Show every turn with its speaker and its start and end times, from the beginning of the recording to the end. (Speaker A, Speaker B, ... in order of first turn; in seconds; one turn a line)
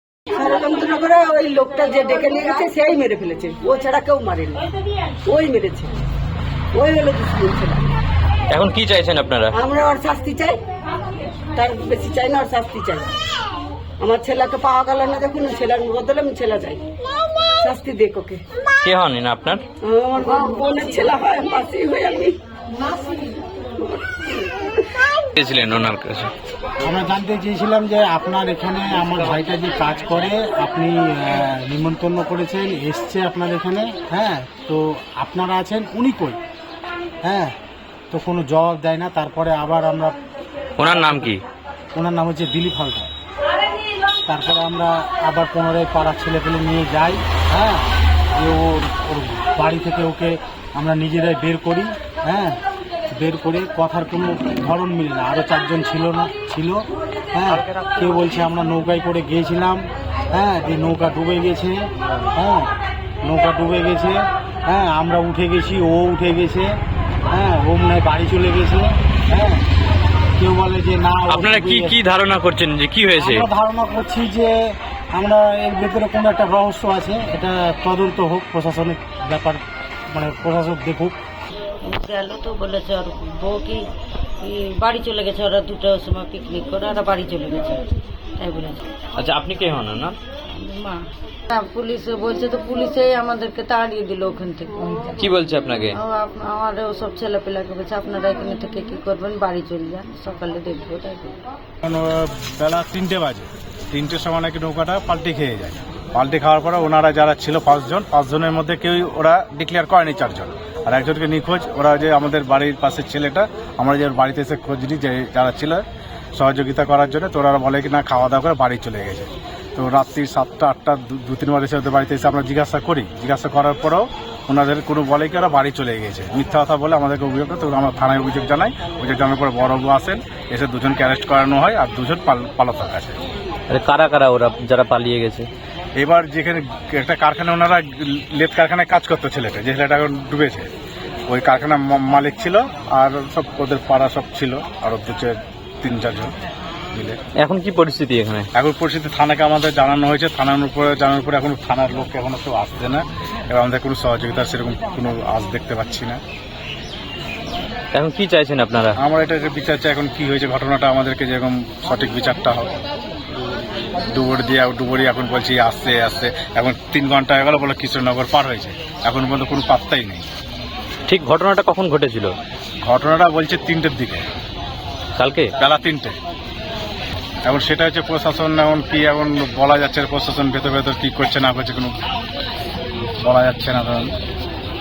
Speaker A: 0.3-4.7
Speaker A: 5.3-5.9
Speaker A: 6.7-8.0
Speaker B: 8.5-9.5
Speaker A: 9.5-10.6
Speaker A: 11.6-13.1
Speaker A: 14.0-16.9
Speaker A: 17.6-18.4
Speaker B: 18.8-19.6
Speaker A: 19.8-22.4
Speaker A: 23.8-24.4
Speaker B: 25.4-26.3
Speaker C: 26.8-36.4
Speaker C: 37.2-37.5
Speaker C: 38.1-40.1
Speaker B: 40.8-41.4
Speaker C: 40.8-41.3
Speaker C: 41.9-43.1
Speaker C: 44.3-47.8
Speaker C: 48.4-52.6
Speaker C: 53.1-62.7
Speaker C: 63.2-66.7
Speaker C: 67.3-69.6
Speaker C: 70.4-72.0
Speaker B: 71.3-73.5
Speaker C: 73.1-81.2
Speaker D: 81.8-83.9
Speaker D: 84.4-87.8
Speaker D: 88.4-88.8
Speaker B: 89.2-90.2
Speaker D: 90.5-95.2
Speaker B: 95.2-96.0
Speaker D: 95.9-101.4
Speaker E: 101.8-115.8
Speaker E: 116.3-133.2
Speaker B: 133.7-135.5
Speaker E: 136.0-140.7
Speaker E: 141.3-146.3
Speaker E: 146.9-147.2
Speaker B: 147.4-148.5
Speaker E: 148.5-156.2
Speaker B: 157.9-159.0
Speaker E: 159.0-162.7
Speaker E: 164.1-170.2
Speaker B: 171.1-172.3
Speaker E: 172.8-174.2
Speaker B: 175.2-175.5
Speaker E: 175.6-176.2
Speaker E: 177.4-181.9
Speaker E: 183.2-184.1